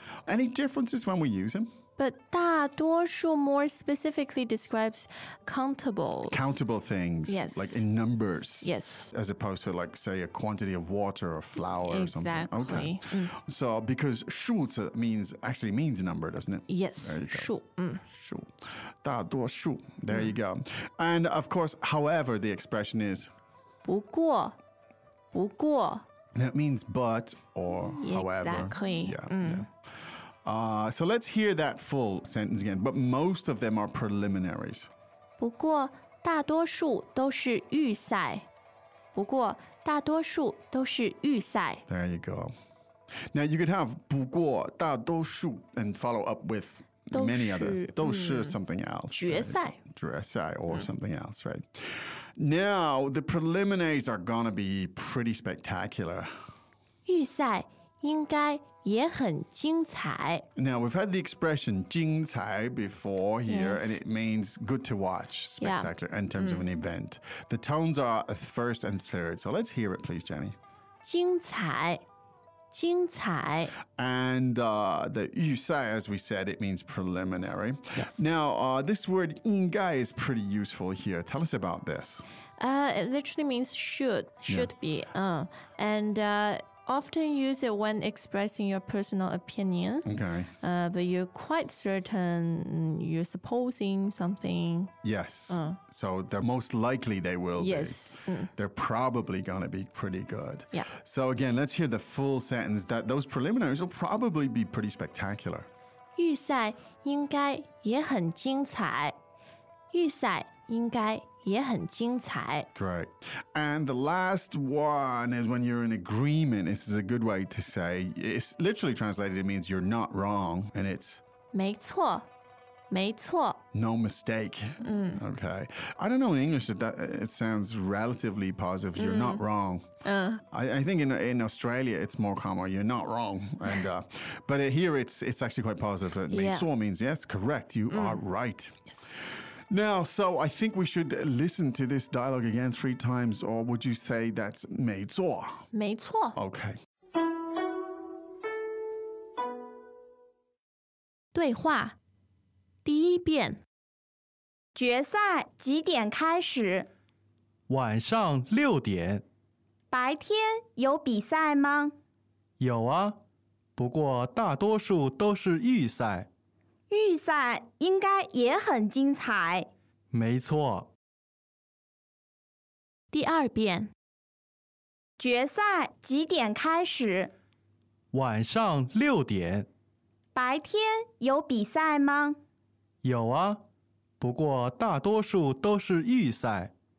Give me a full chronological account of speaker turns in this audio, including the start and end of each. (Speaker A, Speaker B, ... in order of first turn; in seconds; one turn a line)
Speaker A: 0.2-1.7
Speaker B: 2.0-6.4
Speaker A: 6.2-17.5
Speaker B: 7.3-7.8
Speaker B: 8.6-9.1
Speaker B: 11.8-13.3
Speaker B: 16.7-18.0
Speaker A: 18.1-18.5
Speaker A: 19.0-23.3
Speaker B: 23.8-24.5
Speaker B: 25.3-26.0
Speaker A: 26.3-29.7
Speaker B: 27.7-29.6
Speaker A: 30.4-34.9
Speaker B: 35.4-38.5
Speaker B: 39.1-41.8
Speaker A: 41.9-42.5
Speaker A: 43.3-56.3
Speaker B: 47.1-48.6
Speaker B: 49.1-49.8
Speaker B: 57.0-60.5
Speaker A: 60.5-70.5
Speaker B: 63.5-64.0
Speaker B: 65.6-66.6
Speaker B: 71.0-72.0
Speaker B: 72.7-73.7
Speaker A: 73.9-82.2
Speaker B: 82.6-90.1
Speaker A: 84.5-84.7
Speaker A: 90.0-90.5
Speaker B: 90.6-94.9
Speaker A: 95.0-105.7
Speaker B: 95.5-95.8
Speaker B: 97.6-98.5
Speaker B: 106.1-109.2
Speaker B: 109.9-112.7
Speaker A: 112.7-121.2
Speaker B: 121.5-122.3
Speaker B: 122.9-123.6
Speaker A: 123.7-129.8
Speaker B: 124.8-125.2
Speaker B: 129.0-129.4
Speaker B: 130.0-130.4
Speaker A: 130.5-138.8
Speaker B: 136.3-136.7
Speaker B: 137.9-138.2
Speaker A: 139.7-145.7
Speaker B: 145.7-146.3
Speaker A: 146.3-146.8
Speaker B: 151.3-151.9
Speaker B: 152.8-153.6
Speaker C: 154.8-156.9
Speaker D: 157.7-159.2
Speaker C: 159.9-161.9
Speaker D: 162.6-163.2
Speaker D: 163.8-166.3
Speaker C: 166.9-169.7
Speaker D: 170.1-170.9
Speaker B: 173.1-173.9
Speaker C: 175.2-177.3
Speaker D: 178.1-179.7
Speaker C: 180.3-182.4
Speaker D: 183.0-183.6
Speaker D: 184.2-186.7